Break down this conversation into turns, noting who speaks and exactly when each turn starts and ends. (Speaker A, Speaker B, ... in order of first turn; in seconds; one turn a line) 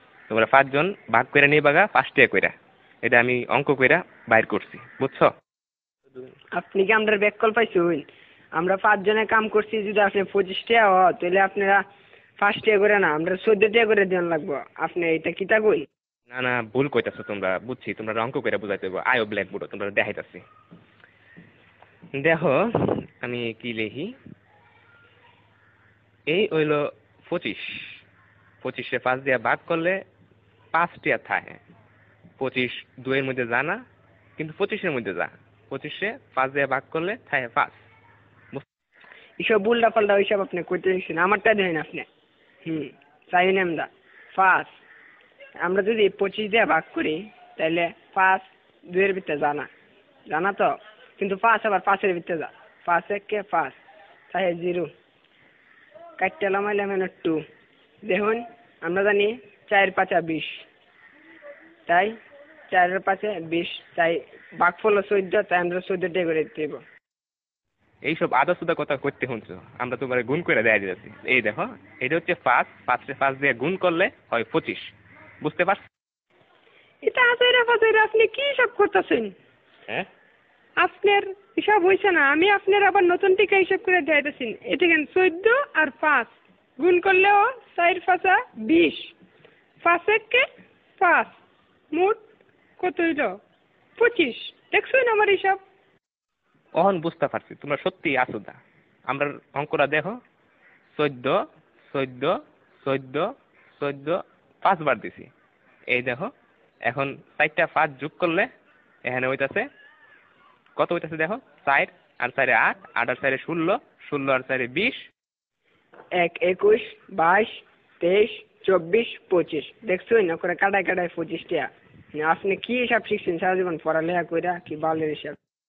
Speaker A: 0.3-2.5
Speaker A: 3.0-5.3
Speaker B: 6.6-11.8
Speaker B: 12.4-15.8
Speaker A: 16.3-20.4
Speaker A: 22.2-24.1
Speaker A: 26.3-28.0
Speaker A: 28.6-30.0
Speaker A: 30.7-31.6
Speaker A: 32.4-33.8
Speaker A: 34.4-37.8
Speaker B: 39.4-42.1
Speaker B: 42.6-44.7
Speaker B: 45.6-49.7
Speaker B: 50.3-53.8
Speaker B: 54.3-54.9
Speaker B: 56.2-57.4
Speaker B: 58.1-60.6
Speaker B: 61.9-62.1
Speaker B: 62.7-66.8
Speaker A: 68.0-74.9
Speaker A: 75.4-75.8
Speaker B: 77.0-79.3
Speaker B: 80.8-89.1
Speaker B: 89.8-90.4
Speaker B: 91.0-91.4
Speaker B: 91.9-92.2
Speaker B: 92.8-93.4
Speaker B: 94.0-95.6
Speaker A: 96.8-100.2
Speaker A: 100.9-105.3
Speaker A: 105.9-106.3
Speaker A: 106.9-108.5
Speaker A: 109.0-109.7
Speaker A: 110.8-115.0
Speaker B: 116.2-125.4